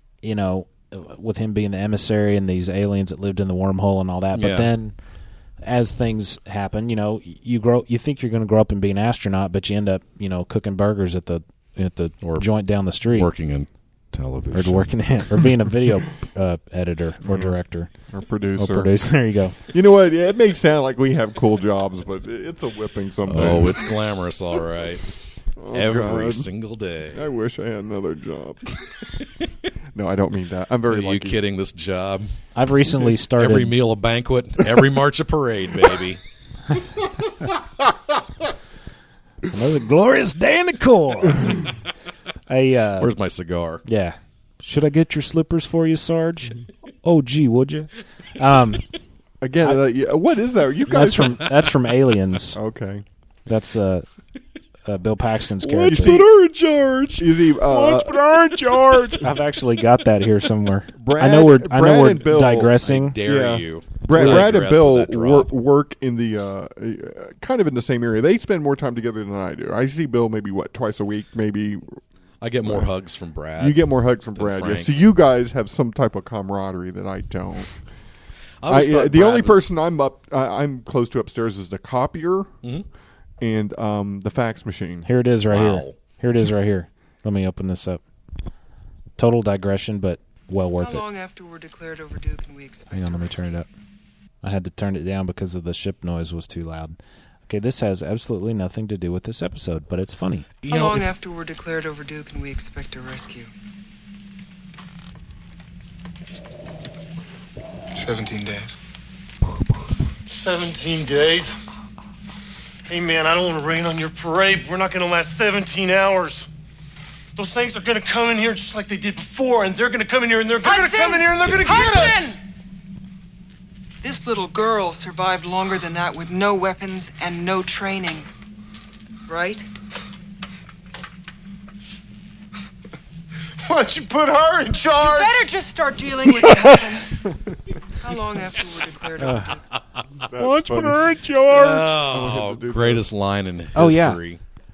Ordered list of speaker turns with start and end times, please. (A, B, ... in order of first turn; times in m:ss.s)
0:00.2-0:04.9 A
0:04.4-0:04.7 B
0:05.6-0:13.3 A
0:12.2-0:12.5 B
0:13.0-0:14.9 B
0:14.5-0:17.9 A
0:17.3-0:17.5 C
0:18.1-0:18.9 C
0:18.6-0:19.6 A
0:19.7-0:23.9 C
0:23.3-0:25.0 B
0:25.6-0:26.5 C
0:25.7-0:27.2 B
0:27.1-0:28.9 C
0:29.9-0:31.4 C
0:30.9-0:32.3 B
0:32.6-0:33.8 A
0:33.4-0:36.2 B
0:39.5-0:41.7 A
0:42.5-0:43.1 A
0:43.0-0:43.8 B
0:43.8-0:48.9 A
0:49.4-0:51.5 C
0:50.9-0:52.6 A
0:52.5-0:53.0 C
0:53.5-0:54.0 A
0:54.9-0:56.2 A
0:55.6-0:59.3 B
0:55.7-0:56.4 C
0:57.2-0:59.2 C
0:59.2-1:03.2 A
1:01.0-1:12.0 C
1:02.8-1:05.5 B
1:04.2-1:04.4 A
1:12.4-1:14.9 B
1:13.6-1:17.8 C
1:18.6-1:19.6 B
1:18.7-1:22.5 C
1:23.4-1:25.1 C
1:25.0-1:28.0 A
1:25.5-1:26.0 B
1:29.2-1:31.0 A
1:30.8-1:33.6 D
1:32.9-1:33.7 A
1:34.4-1:40.5 A
1:40.6-1:41.1 B
1:40.7-1:43.5 D
1:48.0-1:48.7 E
1:50.3-1:51.5 E
1:52.9-1:56.5 E
1:57.4-2:02.4 E
2:00.6-2:02.4 D
2:04.0-2:08.3 D
2:09.3-2:09.6 D
2:13.6-2:15.4 E
2:15.0-2:17.3 D
2:18.0-2:19.6 D
2:19.2-2:19.6 A
2:20.2-2:23.1 C
2:20.4-2:21.8 A
2:21.5-2:24.4 B
2:23.8-2:24.2 A